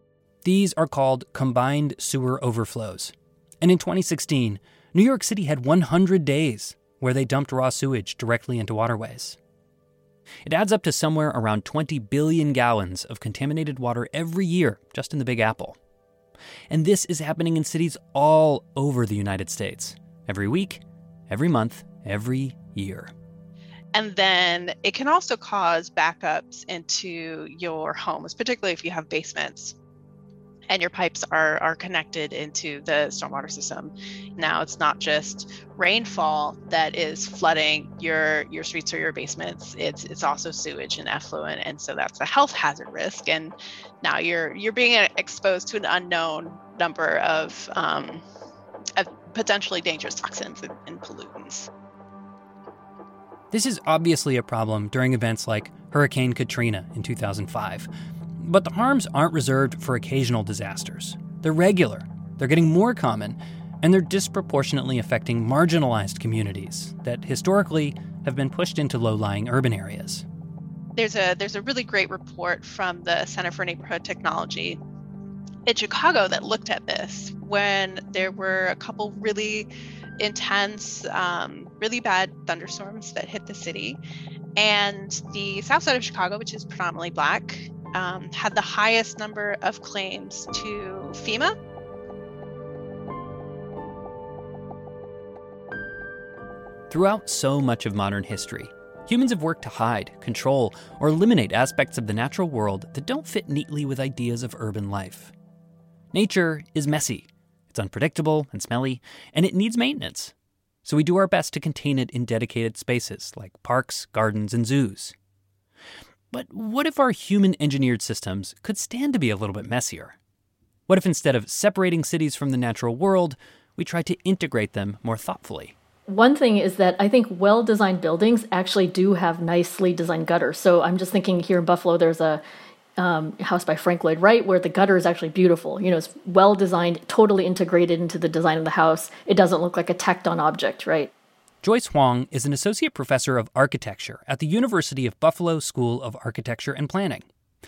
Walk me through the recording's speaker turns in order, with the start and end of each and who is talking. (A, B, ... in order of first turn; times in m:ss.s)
0:00.4-0:09.4 A
0:10.5-0:15.8 A
0:16.7-0:23.1 A
0:23.9-0:29.8 B
0:30.7-0:48.2 B
0:49.0-0:51.7 B
0:53.5-1:10.2 A
1:11.0-1:14.8 B
1:15.7-1:24.0 B
1:24.6-1:31.5 B
1:36.9-1:45.3 A
1:46.1-1:50.3 A
1:50.8-1:55.2 A
1:56.3-2:00.2 A
2:00.9-2:05.8 A
2:06.1-2:12.4 C
2:13.0-2:21.1 C
2:21.6-2:27.3 A